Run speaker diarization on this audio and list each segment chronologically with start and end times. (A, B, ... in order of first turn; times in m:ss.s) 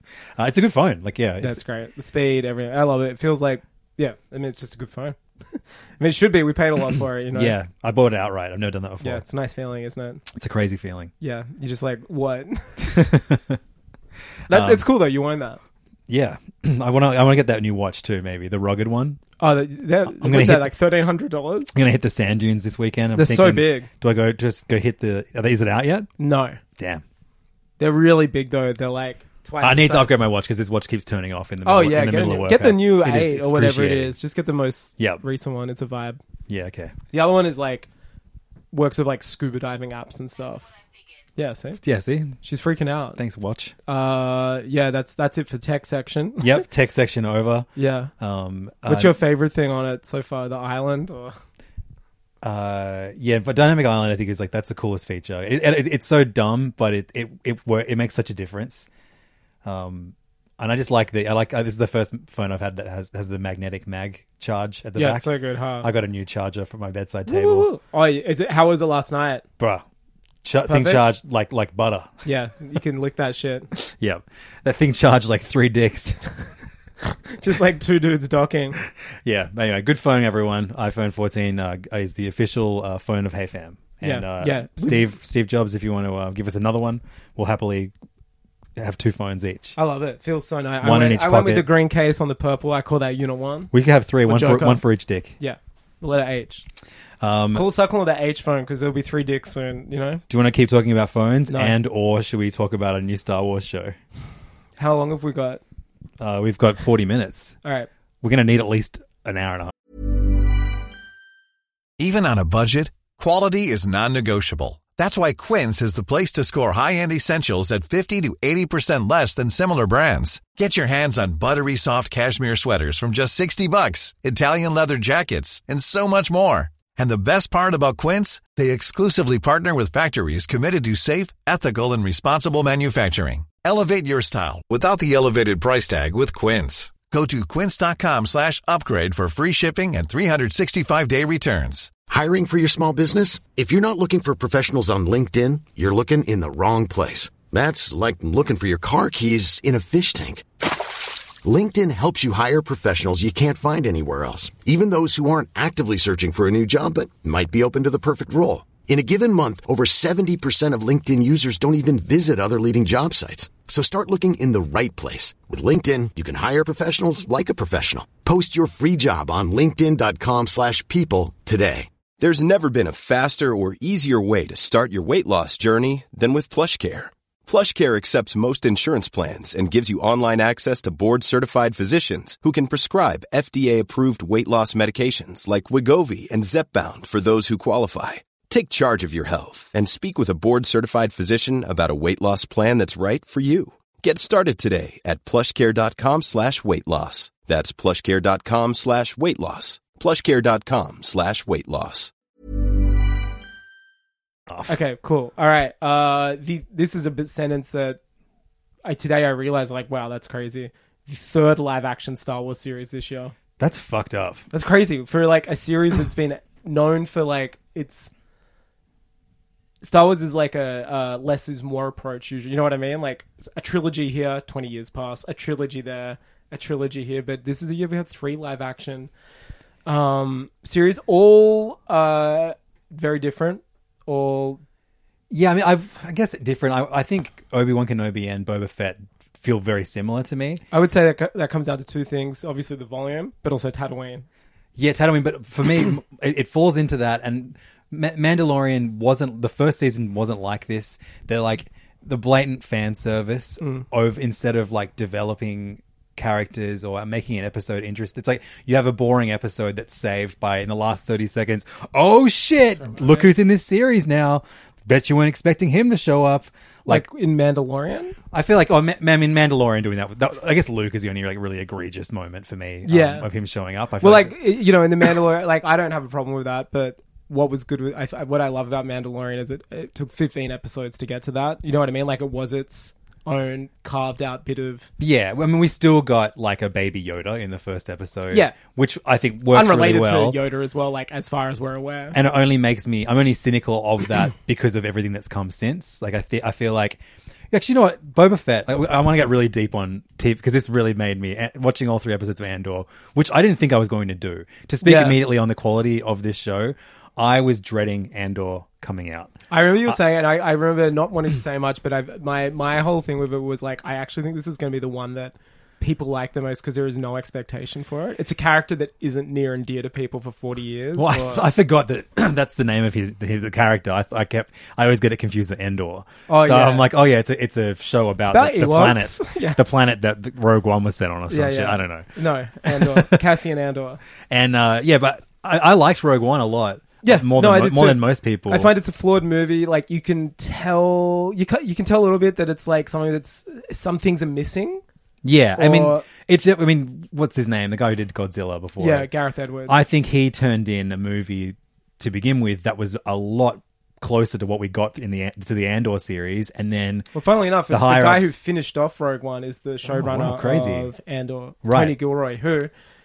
0:00.4-0:01.6 A
0:01.4-0:07.6 B
0:07.3-0:09.2 A
0:09.0-0:10.2 B
0:10.3-0:11.1 A
0:11.2-0:12.8 B
0:12.8-0:13.6 A
0:14.5-0:14.8 A
0:14.5-0:15.6 B
0:16.1-0:19.2 A
0:19.4-0:21.7 B
0:20.1-0:20.7 A
0:21.7-0:26.1 A
0:23.1-0:23.9 B
0:26.2-0:26.6 B
0:26.8-0:27.0 A
0:27.8-0:30.1 B
0:29.6-0:34.1 A
0:31.6-0:36.2 B
0:35.0-0:35.2 A
0:36.5-0:36.9 A
0:37.1-0:37.9 B
0:38.7-0:40.7 B
0:41.4-0:41.8 B
0:41.8-0:42.4 A
0:42.4-0:43.2 B
0:43.2-0:43.7 A
0:43.9-0:46.6 B
0:46.4-0:47.7 A
0:47.8-0:48.1 B
0:48.2-0:49.2 A
0:48.8-0:51.4 B
0:52.4-0:58.9 A
0:59.6-1:07.7 A
1:05.0-1:05.9 B
1:07.3-1:09.4 B
1:09.6-1:09.8 A
1:10.4-1:12.2 A
1:10.7-1:11.1 B
1:12.2-1:13.7 B
1:13.7-1:16.3 A
1:17.3-1:18.8 B
1:19.2-1:27.9 A
1:24.0-1:25.1 B
1:28.8-1:29.8 A
1:29.8-1:33.7 B
1:30.8-1:31.7 A
1:33.7-1:35.4 A
1:34.2-1:34.8 B
1:35.4-1:36.6 B
1:37.2-1:37.7 A
1:37.5-1:40.2 B
1:40.3-1:44.0 A
1:41.5-1:41.8 B
1:44.8-1:45.6 B
1:46.2-1:47.5 A
1:47.6-1:47.9 B
1:48.2-1:49.7 A
1:52.0-2:22.0 C
2:22.0-2:30.4 D
2:31.4-2:51.9 D
2:52.2-3:22.1 E
3:24.5-3:24.7 A
3:24.7-3:28.0 B
3:28.8-3:33.3 B
3:33.6-3:34.4 A
3:34.5-3:38.1 B
3:39.8-3:49.1 B
3:49.8-3:54.6 B
3:55.3-4:00.6 A
4:00.7-4:04.2 B
4:04.8-4:27.0 A
4:22.8-4:23.3 B
4:26.8-4:28.2 B
4:28.3-4:34.4 A
4:32.8-4:33.3 B
4:34.0-4:44.9 B
4:45.0-4:50.4 A
4:48.3-4:48.6 B
4:49.5-4:52.2 B
4:52.1-5:10.0 A
5:04.8-5:05.2 B
5:09.5-5:21.4 B
5:21.0-5:32.1 A
5:26.3-5:26.9 B
5:28.3-5:29.6 B
5:31.3-5:34.0 B
5:32.6-5:33.2 A
5:34.3-5:38.7 A
5:37.0-5:44.8 B
5:45.2-5:49.1 A
5:45.6-5:46.0 B
5:48.8-5:49.8 B
5:49.7-5:57.1 A
5:57.1-6:02.7 B
5:57.7-5:58.3 A
5:59.8-6:00.9 A
6:01.6-6:02.0 A